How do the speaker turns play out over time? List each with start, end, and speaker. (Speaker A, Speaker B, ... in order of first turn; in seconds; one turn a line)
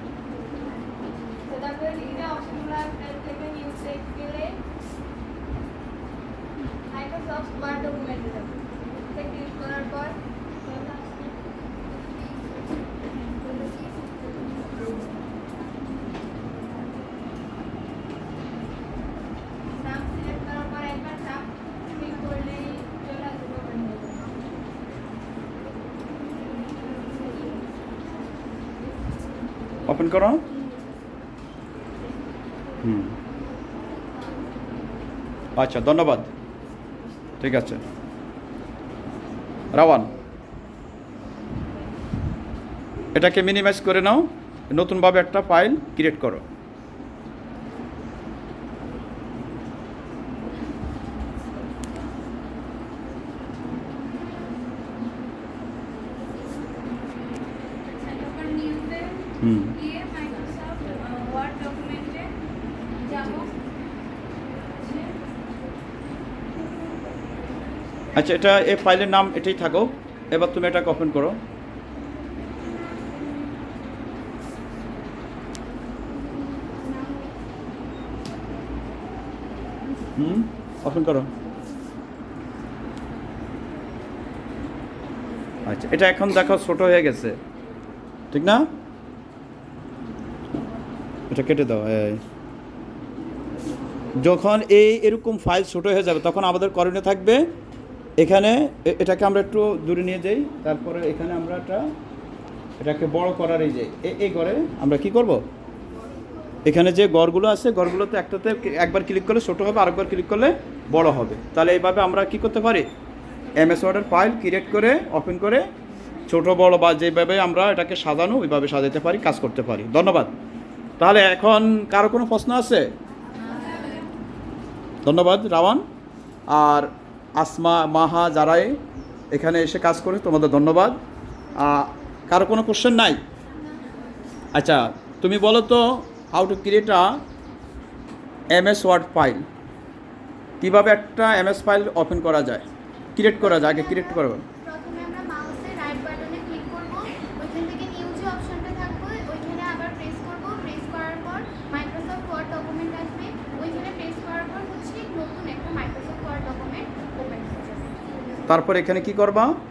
Speaker A: 1.4-4.6
Speaker A: 6.9-8.6
Speaker A: 9.1-11.4
Speaker A: 19.7-24.4
Speaker B: 29.9-30.4
Speaker B: 32.8-33.1
Speaker B: 35.6-36.3
Speaker B: 37.4-37.8
Speaker B: 39.7-40.1
Speaker B: 43.1-46.4
Speaker A: 57.9-62.3
Speaker B: 59.4-59.7
Speaker A: 63.0-63.5
Speaker A: 64.8-65.1
Speaker B: 68.2-71.4
Speaker B: 80.2-81.3
Speaker B: 85.7-87.4
Speaker B: 88.3-88.7
Speaker B: 91.3-92.2
Speaker B: 94.2-97.5
Speaker B: 98.2-101.9
Speaker B: 102.8-105.4
Speaker B: 106.7-112.9
Speaker B: 113.6-115.7
Speaker B: 116.3-120.3
Speaker B: 121.0-122.9
Speaker A: 123.4-124.0
Speaker B: 125.0-125.8
Speaker B: 126.5-128.8
Speaker B: 129.3-131.0
Speaker B: 131.6-133.2
Speaker B: 134.5-137.2
Speaker B: 138.5-139.4
Speaker B: 140.6-144.4
Speaker C: 143.4-158.1
Speaker B: 158.5-159.6